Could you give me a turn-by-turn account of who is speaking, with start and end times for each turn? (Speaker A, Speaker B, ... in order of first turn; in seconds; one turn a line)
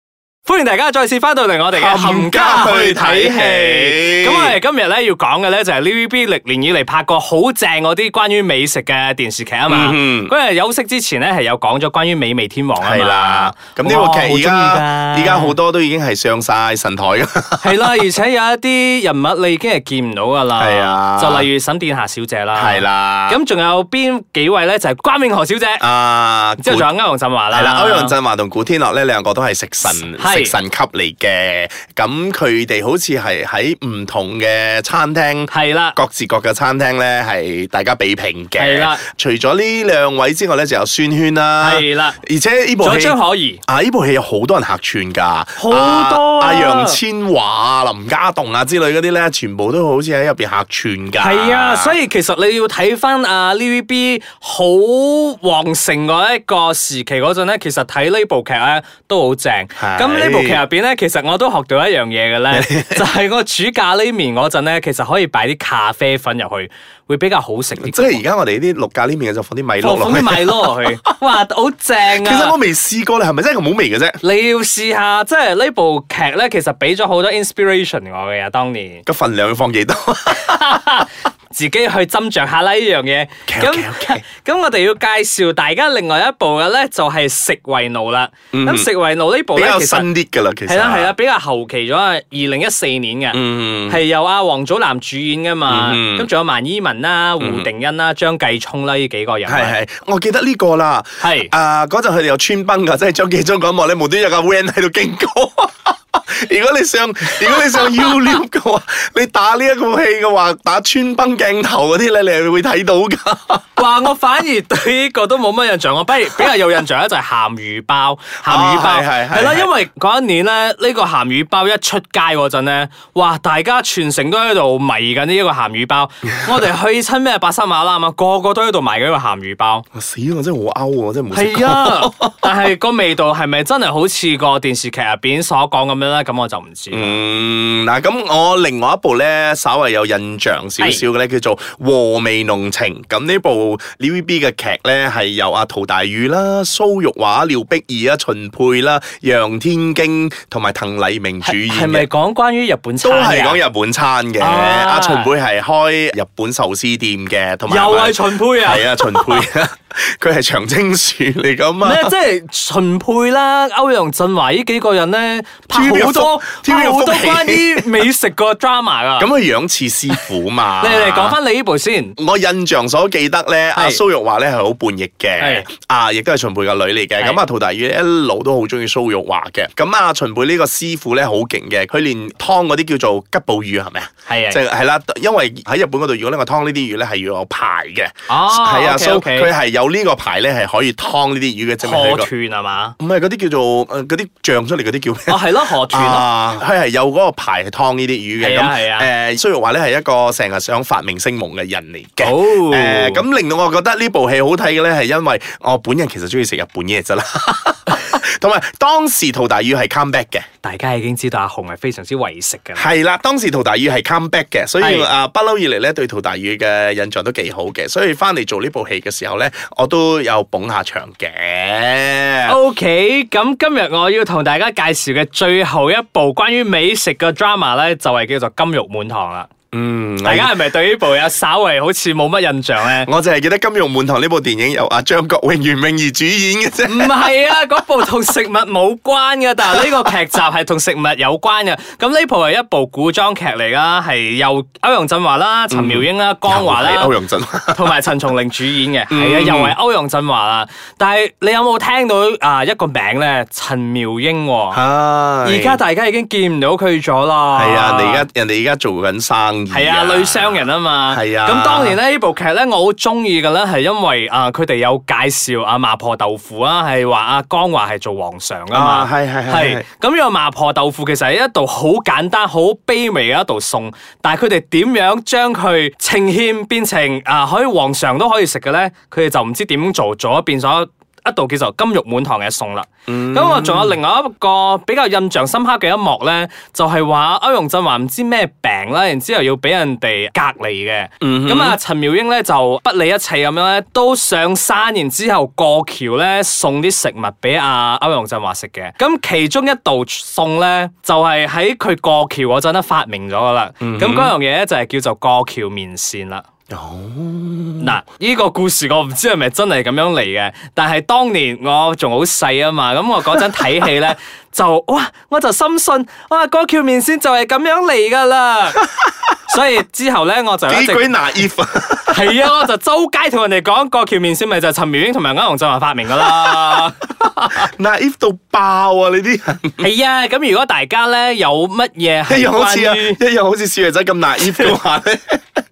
Speaker A: 0.5-15.6
Speaker B: 1.7-4.6
Speaker B: 9.7-10.3
Speaker B: 12.8-18.0
Speaker A: 17.6-25.9
Speaker B: 20.6-21.5
Speaker B: 22.5-23.4
Speaker B: 25.8-26.9
Speaker A: 26.6-28.1
Speaker B: 27.5-52.0
Speaker A: 29.9-30.6
Speaker A: 35.5-36.0
Speaker A: 38.6-39.0
Speaker A: 41.6-42.2
Speaker A: 42.8-43.6
Speaker A: 45.6-47.0
Speaker A: 51.2-68.2
Speaker B: 59.8-60.7
Speaker B: 62.5-63.0
Speaker B: 67.8-71.1
Speaker A: 69.8-72.6
Speaker B: 72.0-74.2
Speaker A: 74.2-79.0
Speaker B: 79.1-80.8
Speaker A: 80.4-90.1
Speaker B: 83.5-84.2
Speaker B: 88.5-88.9
Speaker B: 89.5-91.1
Speaker A: 90.7-99.8
Speaker B: 93.3-94.0
Speaker B: 95.7-96.3
Speaker B: 97.4-97.7
Speaker B: 99.5-113.7
Speaker A: 101.2-101.5
Speaker A: 113.8-129.9
Speaker B: 118.5-119.7
Speaker B: 129.9-132.5
Speaker A: 131.3-137.2
Speaker B: 136.9-152.1
Speaker A: 140.8-141.1
Speaker A: 151.4-153.6
Speaker B: 153.0-162.1
Speaker A: 154.4-155.3
Speaker A: 157.7-159.5
Speaker A: 161.8-169.3
Speaker B: 165.7-168.1
Speaker B: 169.2-171.4
Speaker A: 170.8-172.2
Speaker B: 172.2-192.3
Speaker A: 173.8-174.0
Speaker A: 175.4-175.7
Speaker A: 184.3-184.6
Speaker A: 188.3-189.5
Speaker A: 191.8-193.0
Speaker B: 193.0-210.4
Speaker A: 195.3-196.3
Speaker A: 198.4-199.1
Speaker A: 202.2-203.2
Speaker A: 210.6-212.9
Speaker B: 212.8-222.6
Speaker A: 214.8-215.1
Speaker A: 222.5-229.5
Speaker B: 229.7-230.7
Speaker A: 230.2-233.1
Speaker B: 233.0-237.3
Speaker A: 236.9-247.1
Speaker B: 245.7-247.9
Speaker A: 247.7-254.8
Speaker B: 249.1-249.8
Speaker B: 254.7-255.8
Speaker A: 255.4-258.3
Speaker B: 257.5-262.0
Speaker A: 259.7-306.5
Speaker B: 268.7-269.9
Speaker B: 283.1-284.0
Speaker B: 291.2-291.8
Speaker B: 303.8-304.4
Speaker B: 306.7-308.0
Speaker A: 307.8-318.8
Speaker A: 319.5-321.2
Speaker B: 320.7-322.4
Speaker A: 322.1-327.0
Speaker B: 326.1-329.9
Speaker A: 329.8-333.2
Speaker B: 332.3-335.6
Speaker A: 334.5-334.7